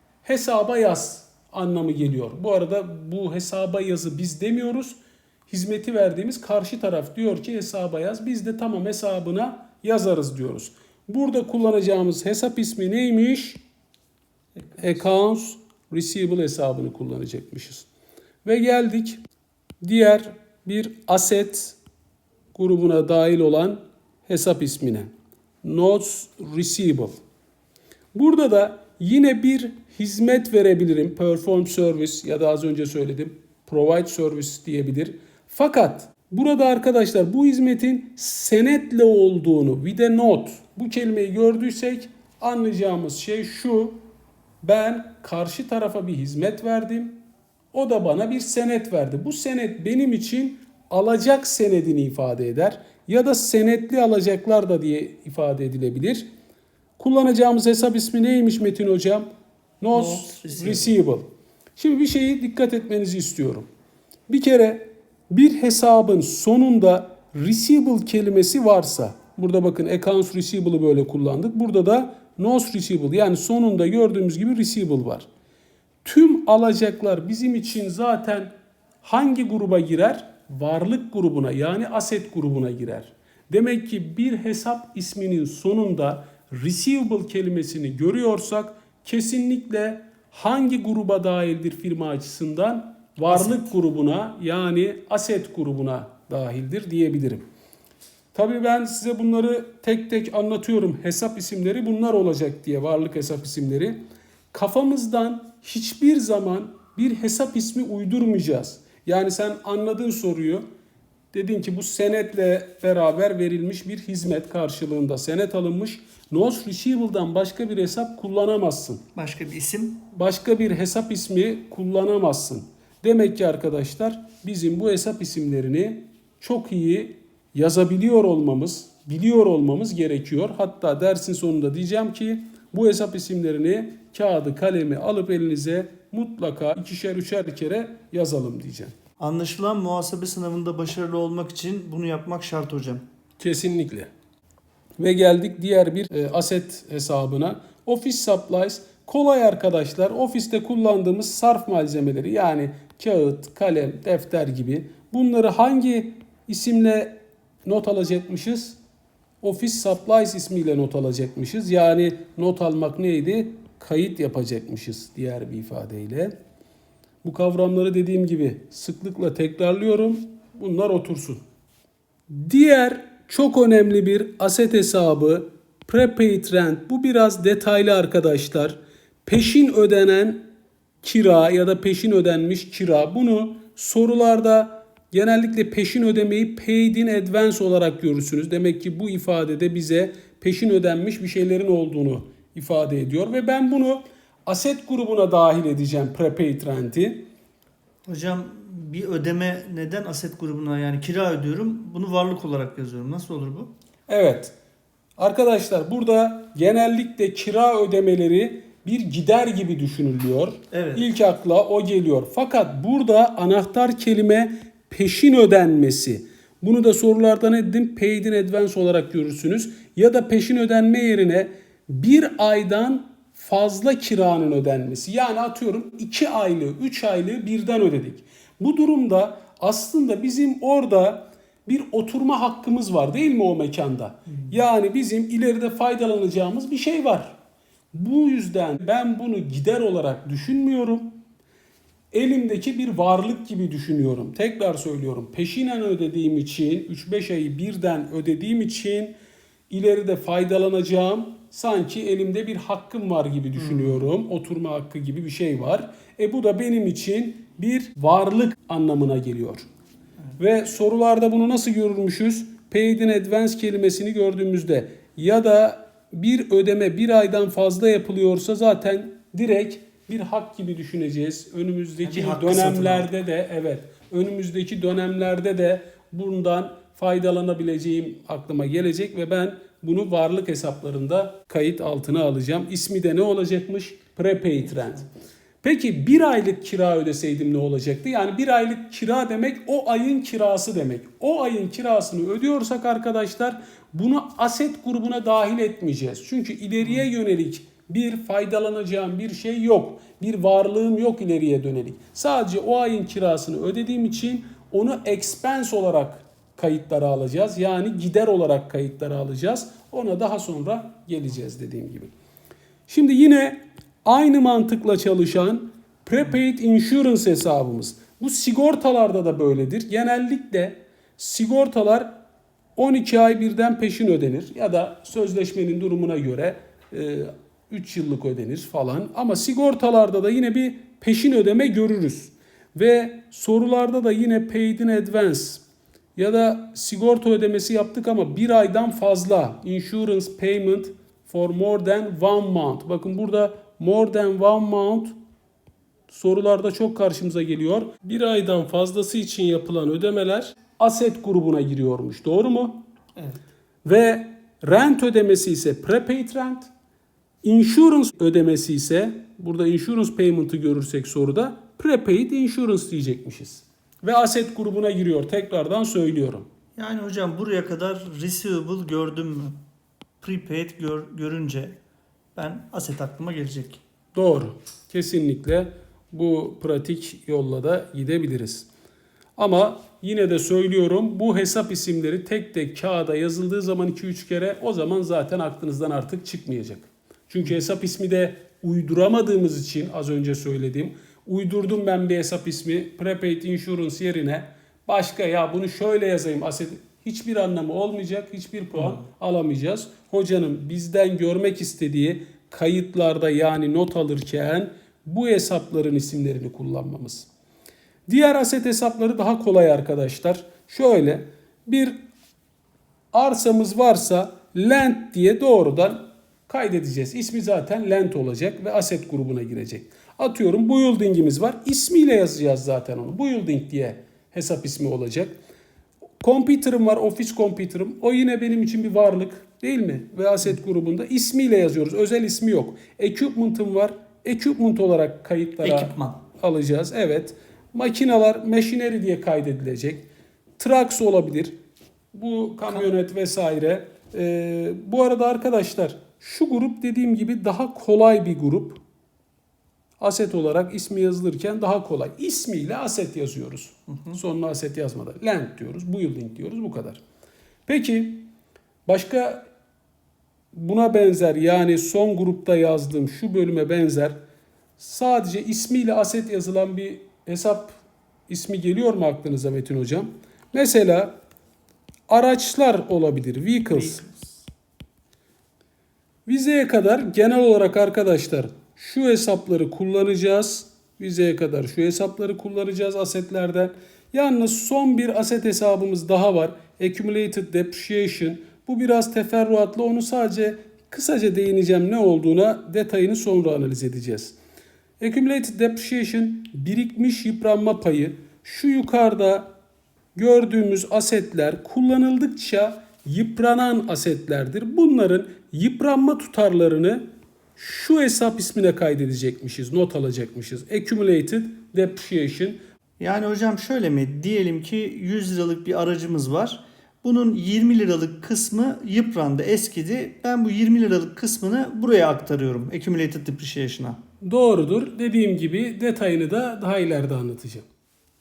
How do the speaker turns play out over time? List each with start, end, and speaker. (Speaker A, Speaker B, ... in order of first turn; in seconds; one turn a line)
Speaker A: 0.2-13.6
Speaker A: 14.8-17.9
Speaker A: 18.4-19.2
Speaker A: 19.8-21.8
Speaker A: 22.5-25.1
Speaker A: 25.6-27.2
Speaker A: 28.1-44.0
Speaker A: 44.6-47.2
Speaker A: 47.7-56.3
Speaker A: 57.0-59.3
Speaker A: 59.8-63.7
Speaker B: 59.9-60.9
Speaker A: 64.3-75.3
Speaker A: 76.0-78.5
Speaker A: 79.0-97.4
Speaker B: 93.3-93.6
Speaker A: 98.3-104.0
Speaker A: 104.5-110.7
Speaker A: 111.3-119.0
Speaker B: 119.2-120.1
Speaker A: 120.1-138.9
Speaker B: 139.2-143.0
Speaker A: 143.4-144.1
Speaker A: 145.0-158.8
Speaker A: 159.4-166.3
Speaker A: 167.2-171.4
Speaker A: 172.3-180.5
Speaker A: 181.0-197.3
Speaker B: 198.1-203.7
Speaker A: 204.1-204.5
Speaker A: 205.2-237.4
Speaker B: 210.7-211.0
Speaker A: 237.9-241.2
Speaker A: 242.1-249.2
Speaker A: 249.7-259.7
Speaker B: 253.6-254.1
Speaker A: 260.4-285.1
Speaker B: 272.0-273.1
Speaker A: 285.6-312.1
Speaker A: 312.9-322.1
Speaker A: 322.8-335.6
Speaker A: 336.2-345.2
Speaker A: 346.1-352.8
Speaker A: 353.9-356.7
Speaker A: 357.4-366.5
Speaker B: 366.8-369.6
Speaker B: 370.2-371.8
Speaker B: 372.4-373.8
Speaker A: 374.1-378.7
Speaker A: 379.4-407.3
Speaker A: 408.1-412.0
Speaker A: 413.1-425.4
Speaker A: 426.2-441.6
Speaker B: 435.6-436.2
Speaker A: 442.1-448.8
Speaker A: 450.0-457.0
Speaker A: 457.7-458.3
Speaker A: 458.9-459.4
Speaker A: 460.5-464.2
Speaker A: 464.8-471.2
Speaker A: 472.1-474.0
Speaker B: 473.7-474.1
Speaker A: 476.3-494.4
Speaker A: 495.0-499.5
Speaker A: 500.1-507.0
Speaker A: 507.6-512.6
Speaker B: 513.0-524.0
Speaker A: 524.2-527.6